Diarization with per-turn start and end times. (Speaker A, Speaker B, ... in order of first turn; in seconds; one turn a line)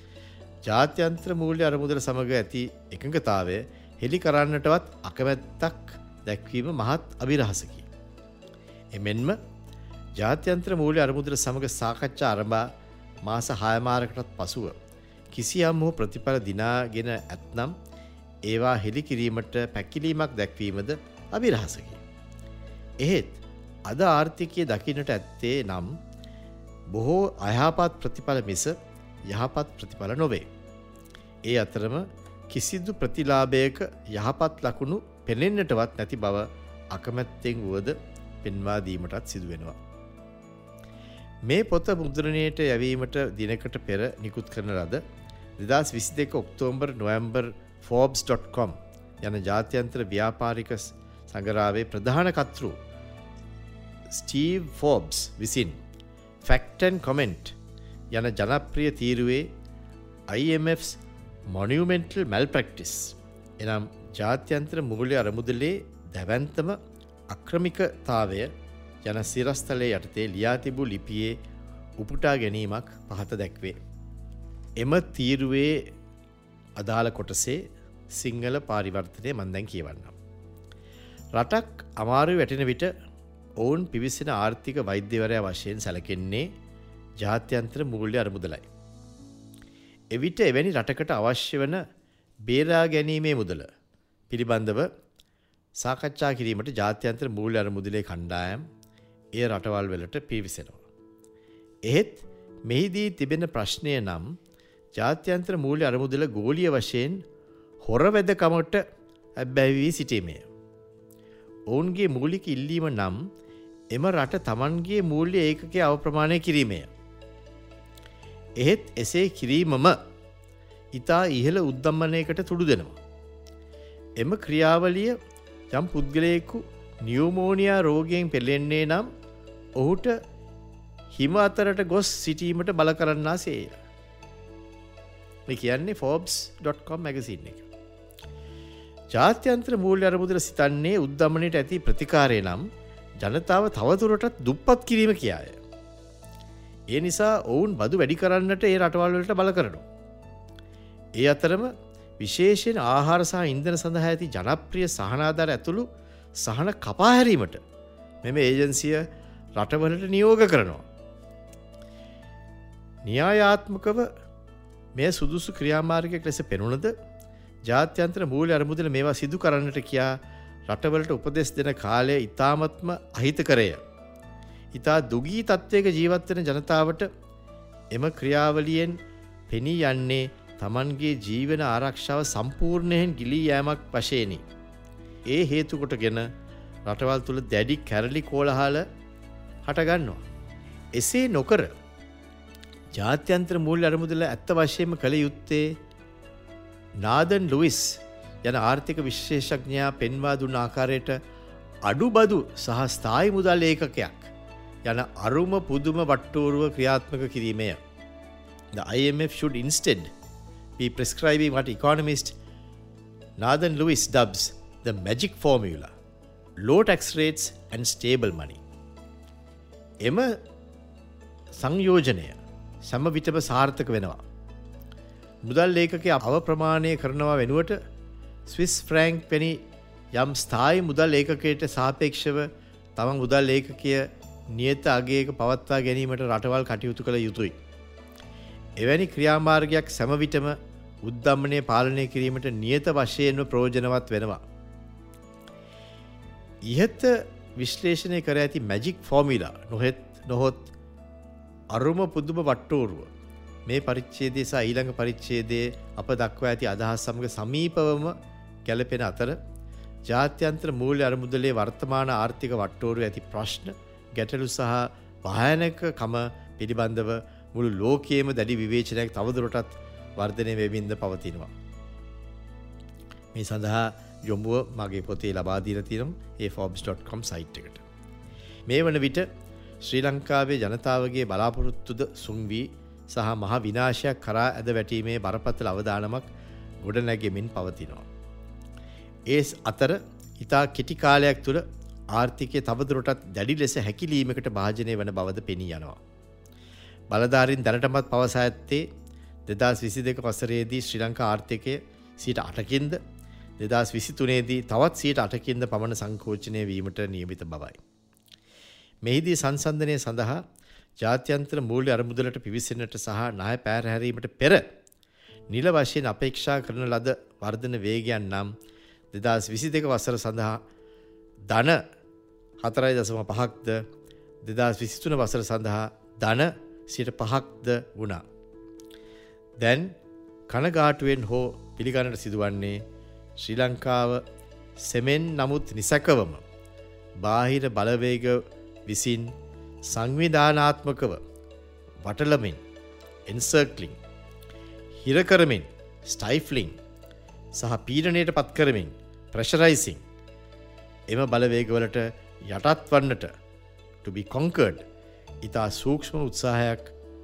Speaker A: 0.6-7.9
Speaker A: 8.9-9.4
Speaker A: 10.2-12.7
Speaker A: 13.2-14.8
Speaker A: 15.3-17.7
Speaker A: 18.4-22.0
Speaker A: 23.0-25.9
Speaker A: 26.9-28.7
Speaker A: 29.3-30.4
Speaker A: 31.5-39.8
Speaker A: 41.5-45.0
Speaker A: 45.6-52.7
Speaker A: 54.1-55.8
Speaker A: 56.4-57.5
Speaker A: 58.1-59.5
Speaker A: 60.3-66.8
Speaker A: 67.3-68.5
Speaker A: 69.0-71.4
Speaker A: 72.0-73.8
Speaker A: 74.8-75.8
Speaker A: 76.8-80.1
Speaker A: 81.3-82.9
Speaker A: 83.6-86.5
Speaker A: 87.2-88.7
Speaker A: 90.1-91.8
Speaker A: 92.5-93.7
Speaker A: 94.3-94.9
Speaker A: 95.8-98.6
Speaker A: 99.3-100.8
Speaker A: 101.9-104.3
Speaker A: 105.0-107.2
Speaker A: 107.8-108.8
Speaker A: 109.4-110.5
Speaker A: 111.7-113.2
Speaker A: 113.9-116.9
Speaker A: 118.6-120.0
Speaker A: 120.9-123.0
Speaker A: 124.2-125.1
Speaker A: 125.7-129.1
Speaker A: 129.8-130.2
Speaker A: 131.1-133.8
Speaker A: 135.5-137.7
Speaker A: 139.1-142.6
Speaker A: 143.2-145.6
Speaker A: 146.9-149.8
Speaker A: 151.2-155.9
Speaker A: 156.4-157.6
Speaker A: 158.2-159.1
Speaker A: 159.6-160.8
Speaker A: 163.0-164.1
Speaker A: 164.9-166.9
Speaker A: 167.7-173.8
Speaker A: 174.7-177.1
Speaker A: 177.9-179.0
Speaker A: 179.5-184.4
Speaker A: 185.3-186.3
Speaker A: 186.8-188.8
Speaker A: 189.6-190.2
Speaker A: 190.9-191.7
Speaker A: 192.9-195.7
Speaker A: 197.0-201.2
Speaker A: 201.8-204.3
Speaker A: 204.8-207.8
Speaker A: 208.7-210.1
Speaker A: 210.8-212.3
Speaker A: 213.4-215.9
Speaker A: 216.6-218.6
Speaker A: 220.0-220.3
Speaker A: 221.6-224.2
Speaker A: 225.4-227.8
Speaker A: 228.5-229.6
Speaker A: 230.1-237.6
Speaker A: 238.8-244.4
Speaker A: 246.7-250.7
Speaker A: 251.7-253.1
Speaker A: 253.7-258.1
Speaker A: 258.7-259.4
Speaker A: 260.1-271.5
Speaker A: 273.3-277.9
Speaker A: 278.7-279.2
Speaker A: 279.8-286.3
Speaker A: 286.8-288.1
Speaker A: 289.3-296.0
Speaker A: 297.1-298.9
Speaker A: 299.5-303.0
Speaker A: 303.6-307.8
Speaker A: 309.0-310.4
Speaker A: 311.0-314.6
Speaker A: 315.5-318.5
Speaker A: 319.1-320.6
Speaker A: 321.5-321.8
Speaker A: 322.6-323.8
Speaker A: 324.4-328.2
Speaker A: 329.6-330.0
Speaker A: 330.5-332.8
Speaker A: 333.4-334.2
Speaker A: 334.8-336.4
Speaker A: 337.2-339.3
Speaker A: 339.9-341.2
Speaker A: 342.0-342.6
Speaker A: 343.3-344.0
Speaker A: 345.0-346.8
Speaker A: 347.6-350.0
Speaker A: 351.1-353.3
Speaker A: 354.0-354.8
Speaker A: 355.4-356.9